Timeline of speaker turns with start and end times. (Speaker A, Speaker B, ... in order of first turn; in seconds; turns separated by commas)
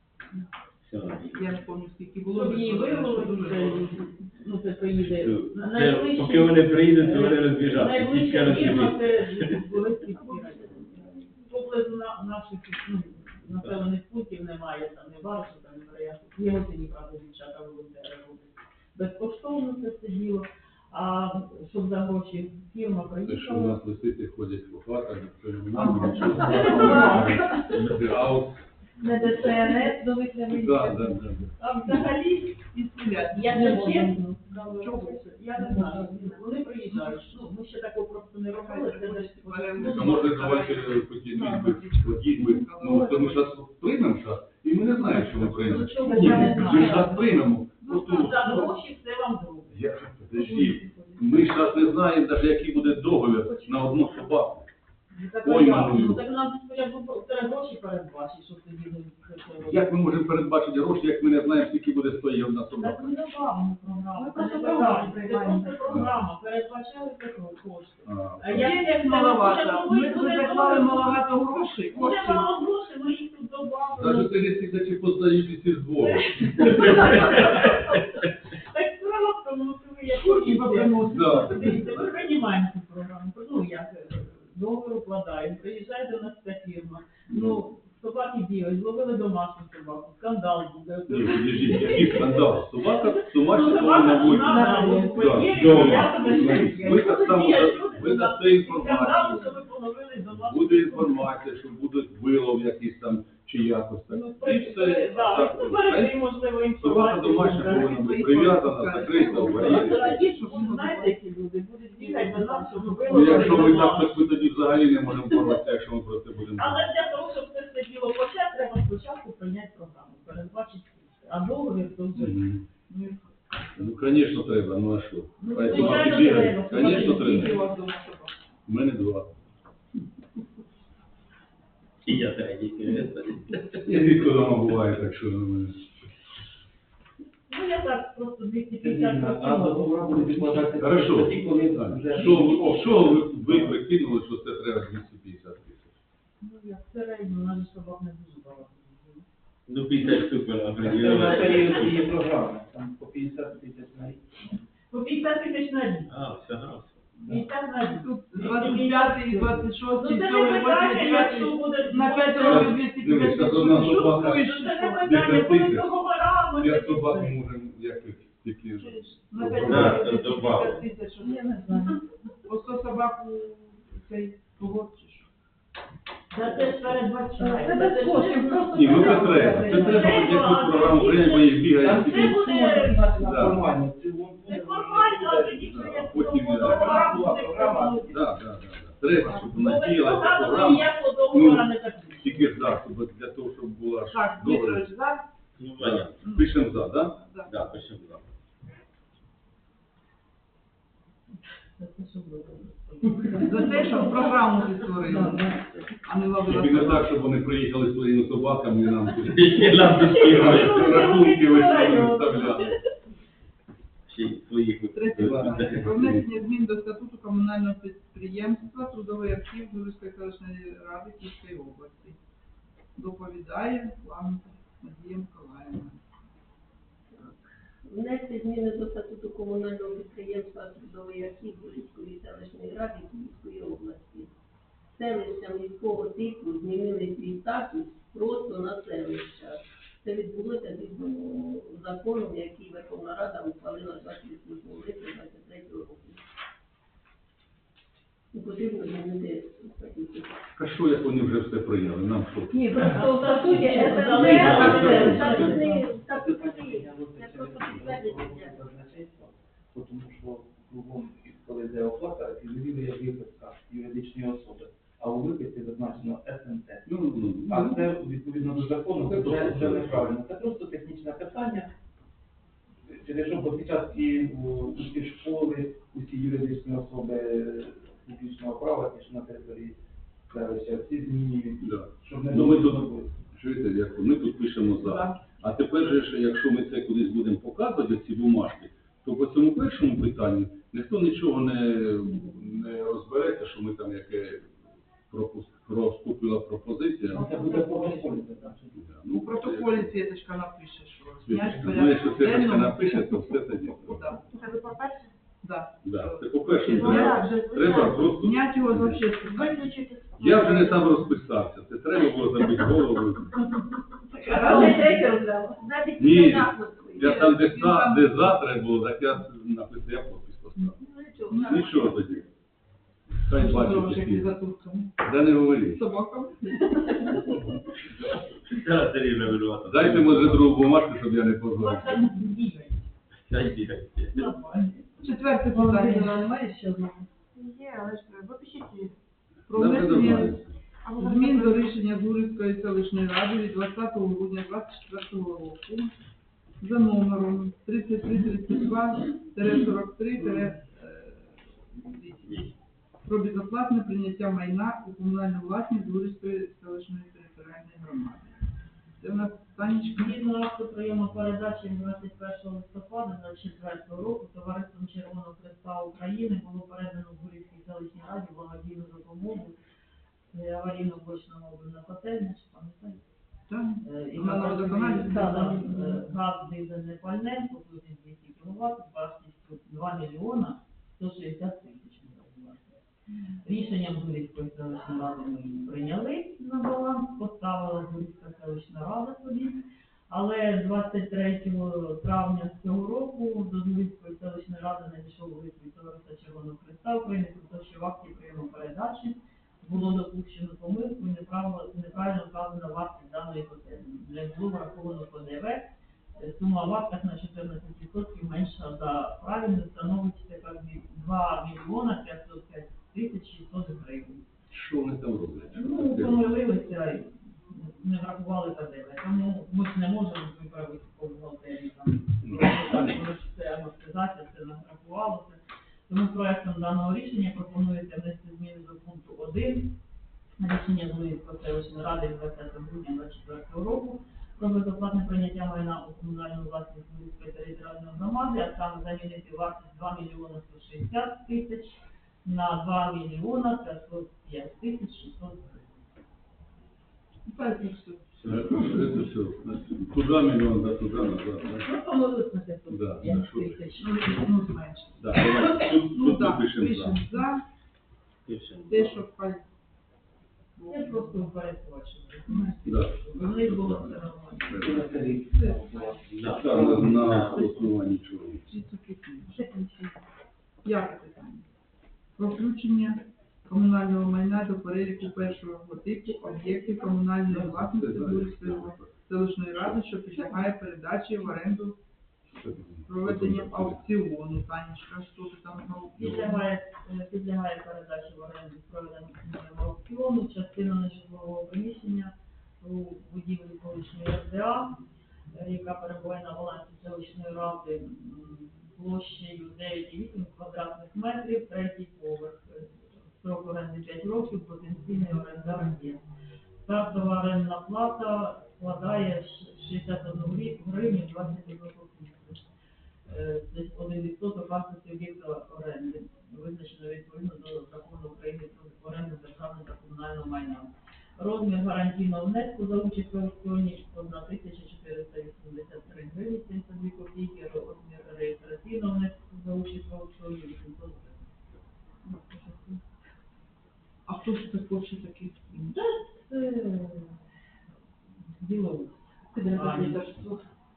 Speaker A: 0.8-1.5, Speaker B: 1.3-4.2, Speaker C: 2.3-23.8, Speaker A: 5.0-9.6, Speaker B: 10.1-11.3, Speaker D: 23.2-29.6, Speaker E: 25.8-27.5, Speaker C: 25.8-27.8, Speaker B: 26.0-26.5, Speaker E: 29.0-31.2, Speaker D: 30.5-31.9, Speaker C: 31.6-32.6, Speaker B: 32.7-34.1, Speaker C: 33.3-40.4, Speaker E: 33.5-34.5, Speaker B: 34.8-35.2, Speaker E: 35.5-36.4, Speaker B: 36.9-37.4, Speaker B: 38.5-43.6, Speaker D: 39.8-48.7, Speaker B: 45.2-46.6, Speaker C: 45.6-47.1, Speaker E: 45.7-47.3, Speaker C: 47.8-49.9, Speaker B: 48.1-48.7, Speaker D: 49.7-54.7, Speaker E: 50.4-51.5, Speaker C: 55.1-59.9, Speaker D: 55.4-56.2, Speaker D: 59.6-63.1, Speaker C: 62.8-71.2, Speaker E: 64.2-65.8, Speaker D: 68.1-68.8, Speaker B: 68.5-72.5, Speaker C: 71.9-74.3, Speaker D: 74.0-76.9, Speaker C: 76.0-78.0, Speaker C: 78.6-92.5, Speaker B: 80.2-81.8, Speaker D: 81.1-82.1, Speaker D: 87.3-87.6, Speaker D: 91.1-99.6, Speaker C: 93.3-101.3, Speaker E: 94.4-95.5, Speaker A: 95.5-96.2, Speaker D: 100.3-106.3, Speaker C: 104.1-108.1, Speaker D: 106.8-110.3, Speaker B: 107.5-111.2, Speaker C: 109.3-114.5, Speaker B: 112.0-113.9, Speaker D: 113.1-116.9, Speaker C: 116.6-122.4, Speaker D: 122.2-122.6, Speaker B: 122.9-123.9, Speaker D: 123.8-127.6, Speaker C: 125.4-127.6, Speaker B: 125.7-128.4, Speaker D: 128.7-129.4, Speaker A: 132.1-134.2, Speaker D: 133.8-135.8, Speaker C: 137.5-140.7, Speaker F: 138.8-143.8, Speaker D: 140.8-145.9, Speaker C: 146.4-149.2, Speaker A: 149.7-152.1, Speaker F: 150.8-154.6, Speaker C: 154.9-156.1, Speaker A: 156.1-157.0, Speaker F: 157.2-157.5, Speaker C: 157.2-162.8, Speaker B: 158.0-165.1, Speaker D: 162.4-164.5, Speaker C: 163.7-167.4, Speaker D: 165.0-166.0, Speaker D: 166.6-170.1, Speaker B: 168.8-175.3, Speaker A: 169.6-170.9, Speaker E: 171.2-172.0, Speaker C: 176.3-183.1, Speaker E: 177.4-180.4, Speaker D: 178.7-182.4, Speaker F: 181.7-186.0, Speaker D: 183.2-183.6, Speaker C: 184.4-188.1, Speaker D: 185.7-187.1, Speaker F: 186.6-188.2, Speaker B: 186.8-187.9, Speaker D: 188.1-194.9, Speaker C: 189.3-192.6, Speaker B: 194.1-195.2, Speaker A: 195.6-196.1, Speaker D: 195.8-197.2, Speaker B: 196.2-197.5, Speaker A: 197.5-198.3, Speaker C: 201.8-204.2, Speaker E: 203.4-204.1, Speaker B: 203.4-207.2, Speaker E: 205.0-205.7, Speaker D: 206.4-212.8, Speaker A: 209.2-211.0, Speaker C: 210.0-212.8, Speaker A: 214.1-215.9, Speaker B: 214.9-222.2, Speaker F: 215.2-215.7, Speaker D: 215.9-216.2, Speaker B: 223.0-226.0, Speaker G: 227.1-234.3, Speaker G: 234.9-246.2, Speaker G: 248.3-250.4, Speaker D: 250.6-255.7, Speaker E: 252.5-255.8, Speaker C: 252.8-255.6, Speaker A: 254.2-255.0, Speaker G: 254.4-258.5, Speaker H: 254.6-258.5, Speaker F: 255.8-266.9, Speaker D: 266.9-267.9, Speaker F: 267.4-271.7, Speaker D: 269.0-270.1, Speaker F: 272.9-279.8, Speaker F: 280.3-283.2, Speaker D: 281.6-294.5, Speaker B: 284.8-285.2, Speaker D: 295.1-297.3, Speaker F: 297.1-298.8, Speaker C: 297.2-298.4, Speaker D: 298.8-299.9, Speaker B: 299.1-304.4, Speaker D: 301.2-304.2, Speaker H: 304.3-305.1, Speaker B: 305.4-309.7, Speaker D: 305.8-309.1, Speaker H: 306.6-308.2, Speaker H: 309.2-311.2, Speaker D: 310.2-313.4, Speaker B: 314.1-315.0, Speaker H: 314.3-314.9, Speaker E: 314.3-315.6, Speaker H: 315.6-317.0, Speaker D: 316.0-320.8, Speaker B: 317.0-318.2, Speaker H: 320.7-322.2, Speaker B: 321.3-321.7, Speaker D: 321.4-322.2, Speaker D: 323.2-324.4, Speaker B: 323.3-325.0, Speaker D: 325.0-325.9, Speaker B: 325.7-327.4, Speaker A: 328.5-330.5, Speaker D: 329.7-332.1, Speaker C: 331.6-332.9, Speaker A: 333.3-334.3, Speaker C: 334.1-335.0, Speaker B: 335.0-336.3, Speaker E: 335.5-337.1, Speaker H: 337.4-338.9, Speaker B: 339.5-340.4, Speaker D: 339.5-340.5, Speaker H: 340.8-341.8, Speaker B: 341.0-345.9, Speaker B: 346.6-352.5, Speaker A: 352.2-352.5, Speaker B: 353.1-358.4, Speaker B: 359.0-360.2, Speaker C: 359.9-369.6, Speaker C: 370.3-373.0, Speaker B: 373.5-375.7, Speaker C: 373.8-382.8, Speaker E: 375.1-376.0, Speaker B: 383.1-383.4, Speaker C: 383.4-414.3, Speaker D: 414.5-416.2, Speaker C: 415.5-429.8, Speaker D: 422.2-423.0, Speaker C: 430.4-445.8, Speaker B: 447.3-448.9, Speaker A: 448.2-448.6, Speaker D: 448.3-451.7, Speaker C: 451.6-454.3, Speaker D: 452.7-453.9, Speaker B: 453.8-457.4, Speaker D: 455.0-457.0, Speaker A: 458.3-459.0, Speaker B: 458.7-459.4, Speaker B: 460.6-461.3, Speaker C: 460.7-464.6, Speaker B: 462.3-462.7, Speaker D: 462.7-464.9, Speaker F: 464.5-467.3, Speaker B: 465.3-466.1, Speaker A: 466.1-467.7, Speaker D: 466.3-468.5, Speaker B: 468.5-469.4, Speaker E: 469.3-469.9, Speaker B: 470.6-471.5, Speaker B: 472.2-481.8, Speaker H: 476.1-477.0, Speaker D: 477.2-479.0, Speaker D: 482.4-483.8, Speaker B: 482.9-486.5, Speaker C: 485.9-494.8, Speaker C: 495.3-506.0, Speaker C: 506.6-512.4, Speaker C: 513.1-531.3, Speaker B: 532.0-532.7, Speaker B: 534.1-535.8, Speaker C: 535.7-537.2, Speaker C: 538.2-540.3, Speaker E: 539.3-540.4